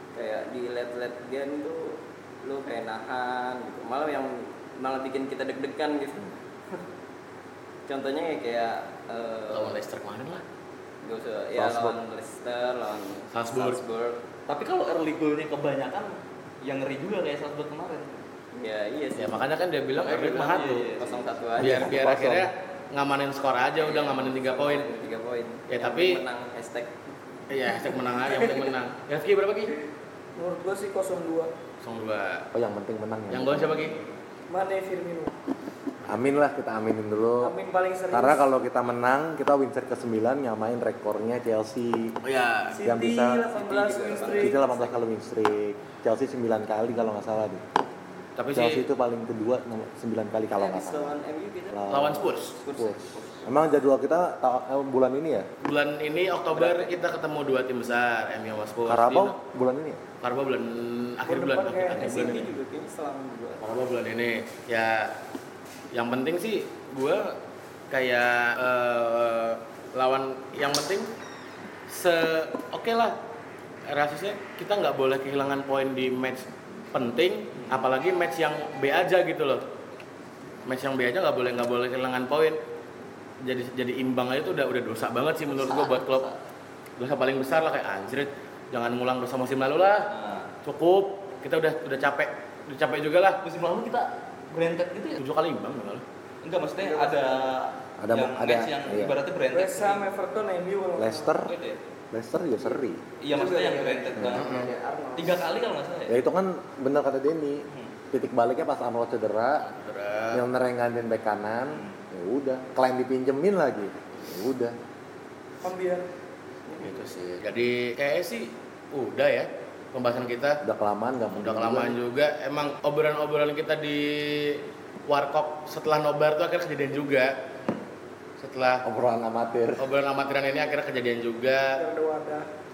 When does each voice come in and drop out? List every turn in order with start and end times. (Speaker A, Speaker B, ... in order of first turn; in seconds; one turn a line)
Speaker A: 0.1-6.8
Speaker A: 7.9-9.8
Speaker B: 9.5-10.4
Speaker A: 11.0-14.2
Speaker C: 11.6-12.0
Speaker B: 13.3-13.8
Speaker D: 14.5-18.2
Speaker A: 18.5-19.4
Speaker B: 19.2-20.9
Speaker A: 20.1-21.9
Speaker D: 20.1-21.3
Speaker C: 21.6-22.5
Speaker B: 21.6-24.9
Speaker A: 23.8-26.9
Speaker B: 25.7-26.2
Speaker B: 27.5-29.7
Speaker E: 30.4-31.5
Speaker B: 31.8-32.5
Speaker C: 32.5-33.9
Speaker B: 33.3-34.0
Speaker E: 34.5-35.3
Speaker C: 36.1-37.5
Speaker E: 37.4-38.5
Speaker C: 38.1-42.2
Speaker B: 42.2-42.8
Speaker E: 42.7-44.6
Speaker C: 42.8-43.5
Speaker A: 43.5-44.9
Speaker C: 44.3-47.6
Speaker B: 48.4-48.9
Speaker C: 48.5-51.2
Speaker A: 50.5-51.8
Speaker C: 51.7-55.5
Speaker B: 51.9-52.6
Speaker A: 52.6-53.5
Speaker B: 55.6-59.4
Speaker A: 56.5-57.0
Speaker C: 58.9-60.0
Speaker B: 60.2-62.5
Speaker E: 61.2-62.3
Speaker A: 61.9-63.6
Speaker B: 63.6-65.1
Speaker B: 65.9-67.4
Speaker B: 67.9-71.1
Speaker B: 71.9-73.2
Speaker B: 73.9-79.6
Speaker D: 77.6-77.9
Speaker B: 80.7-82.6
Speaker B: 83.4-86.2
Speaker D: 85.5-86.4
Speaker B: 87.0-90.1
Speaker D: 90.1-90.5
Speaker B: 90.6-93.4
Speaker D: 93.4-95.2
Speaker B: 95.2-96.0
Speaker D: 96.4-100.2
Speaker E: 96.8-97.5
Speaker C: 98.0-99.2
Speaker E: 99.5-101.4
Speaker C: 101.0-101.6
Speaker D: 101.4-101.8
Speaker C: 102.1-103.0
Speaker D: 103.2-106.2
Speaker E: 103.3-105.4
Speaker C: 104.2-104.7
Speaker C: 106.1-109.7
Speaker B: 109.7-110.4
Speaker C: 110.3-114.8
Speaker E: 115.6-116.1
Speaker B: 116.8-120.6
Speaker C: 120.6-122.0
Speaker B: 121.3-127.3
Speaker B: 128.4-128.8
Speaker C: 128.8-129.9
Speaker B: 129.8-131.8
Speaker E: 131.8-132.5